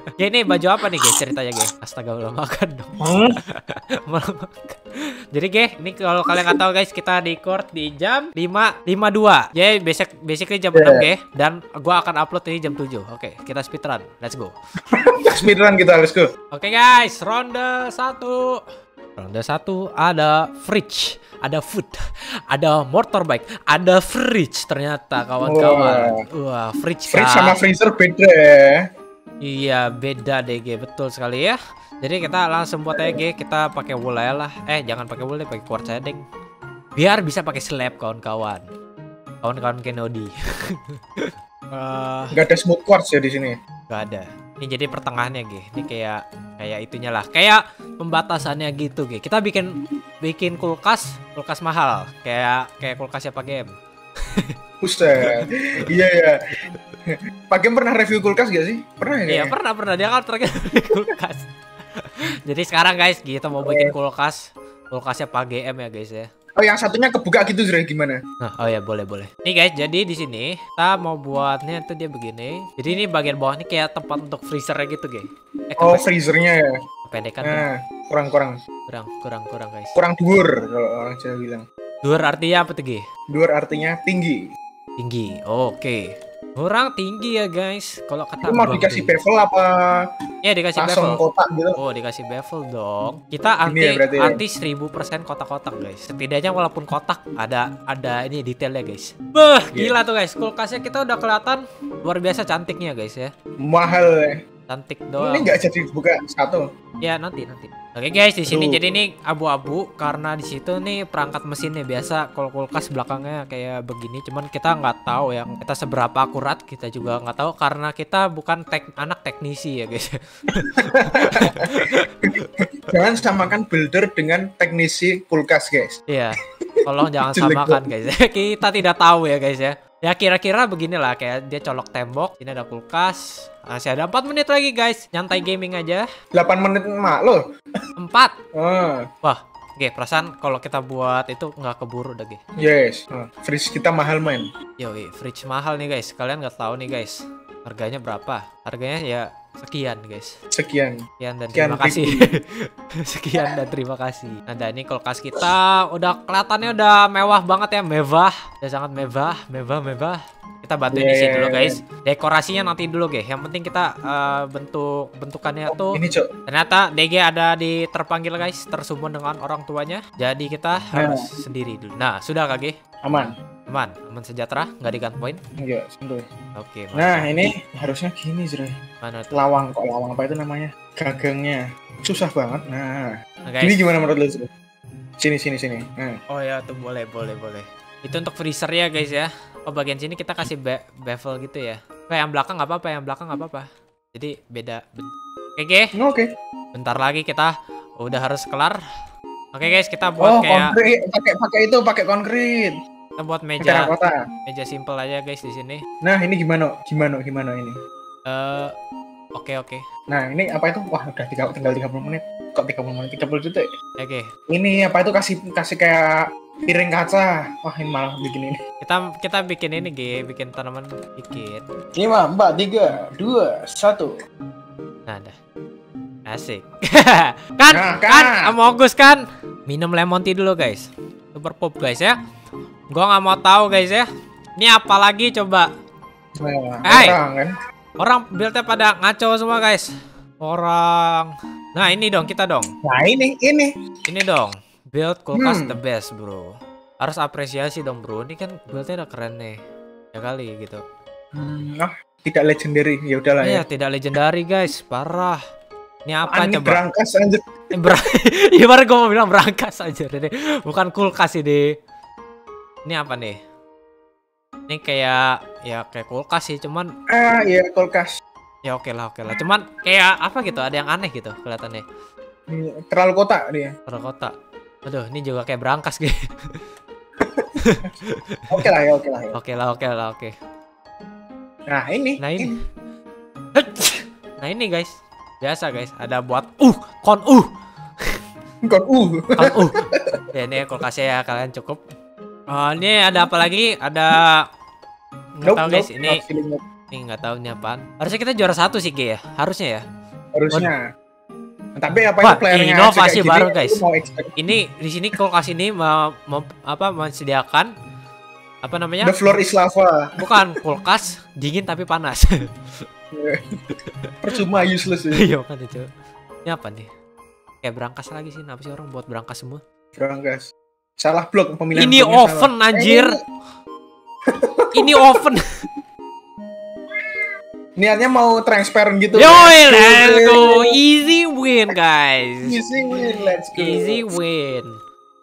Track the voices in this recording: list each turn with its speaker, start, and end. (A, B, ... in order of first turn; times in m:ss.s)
0:00.2-0:03.0 A
0:03.0-0:03.4 B
0:03.5-0:14.5 A
0:10.7-0:11.1 B
0:14.9-0:16.3 B
0:16.5-0:18.6 A
0:19.2-0:22.0 A
0:22.5-0:27.6 A
0:25.4-0:26.2 B
0:27.1-0:28.8 B
0:29.4-0:36.2 A
0:32.9-0:33.2 B
0:36.9-0:38.6 A
0:39.4-0:42.4 A
0:42.3-0:43.6 B
0:43.9-0:49.7 A
0:50.2-0:53.7 A
0:54.8-0:56.4 B
0:55.2-0:55.5 A
0:57.1-0:59.5 B
0:59.3-1:06.3 A
1:03.6-1:03.9 B
1:06.6-1:08.2 B
1:08.4-1:16.1 A
1:15.8-1:16.7 B
1:17.1-1:17.7 A
1:17.4-1:18.6 B
1:18.9-1:20.0 A
1:20.0-1:21.7 B
1:22.0-1:23.0 A
1:23.3-1:24.5 B
1:25.0-1:29.2 A
1:28.4-1:30.0 B
1:30.4-1:31.2 A
1:30.8-1:31.8 B
1:31.8-1:43.3 A
1:33.7-1:34.4 B
1:43.6-1:44.4 B
1:44.7-1:45.5 A
1:45.2-1:46.7 B
1:47.0-2:02.5 A
1:48.5-1:48.8 B
2:00.8-2:06.0 B
2:06.1-2:16.1 A
2:07.3-2:07.8 B
2:16.3-2:17.4 B
2:18.0-2:18.3 A
2:18.6-2:19.0 B
2:19.2-2:22.4 A
2:22.6-2:24.5 B
2:24.8-2:30.3 A
2:30.5-2:31.0 B
2:31.2-2:55.4 A
2:31.5-2:32.3 B
2:40.9-2:41.8 B
2:45.7-2:46.3 B
2:50.9-2:51.2 B
2:53.0-2:53.3 B
2:55.6-2:56.2 B
2:56.6-2:57.3 A
2:56.9-2:58.7 B
2:59.0-2:59.4 A
2:59.3-3:03.1 B
3:03.5-3:03.9 A
3:03.6-3:04.5 B
3:05.2-3:06.2 B
3:06.3-3:15.9 A
3:15.9-3:16.3 B
3:16.8-3:18.8 A
3:19.5-3:20.8 A
3:20.2-3:22.7 B
3:23.2-3:23.9 A
3:23.6-3:24.2 B
3:24.5-3:25.8 A
3:26.0-3:27.8 B
3:28.3-3:28.7 A
3:29.4-3:29.8 A
3:30.1-3:33.6 B
3:34.0-3:34.3 A
3:34.5-3:36.2 B
3:36.7-3:38.6 B
3:38.8-3:41.6 A
3:42.0-3:44.1 B
3:45.1-3:45.3 A
3:46.2-3:52.2 A
3:47.7-3:48.5 B
3:52.9-3:54.1 A
3:54.6-3:55.7 A
3:56.4-3:57.5 B
3:56.8-3:57.2 A
3:58.0-3:59.9 A
4:00.4-4:02.7 A
4:02.8-4:03.7 B
4:04.1-4:06.5 A
4:05.3-4:05.8 B
4:07.0-4:09.6 A
4:10.1-4:10.8 A
4:11.3-4:13.6 B
4:13.4-4:15.4 A
4:16.0-4:16.8 A
4:16.3-4:17.9 B
4:17.7-4:21.6 A
4:22.8-4:23.4 A
4:24.7-4:26.9 A
4:27.1-4:28.1 B
4:28.6-4:31.8 A
4:32.5-4:33.7 B
4:33.9-4:34.3 A
4:34.8-4:36.2 A
4:37.2-4:37.5 B
4:37.6-4:38.6 A
4:38.5-4:39.3 B
4:39.3-4:40.3 A
4:41.7-4:42.6 B
4:42.2-4:42.5 A
4:43.6-4:47.5 A
4:48.7-4:50.2 B
4:49.4-4:49.8 A
4:50.3-4:51.8 A
4:52.5-4:54.4 A
4:55.4-4:56.2 A
4:55.4-4:56.6 B
4:56.9-4:59.8 A
5:00.3-5:00.8 B
5:01.8-5:04.4 B
5:02.2-5:03.8 A
5:04.4-5:07.7 A
5:08.6-5:09.4 A
5:09.0-5:10.1 B
5:10.2-5:12.3 A
5:13.1-5:13.7 B
5:13.8-5:14.1 A
5:14.2-5:15.2 B
5:15.1-5:15.9 A
5:16.4-5:16.9 A
5:17.6-5:19.6 A
5:20.0-5:23.2 B
5:21.7-5:23.2 A
5:24.4-5:25.0 B
5:24.7-5:25.4 A
5:27.8-5:30.7 B
5:29.1-5:32.6 A
5:32.4-5:34.0 B
5:33.5-5:34.7 A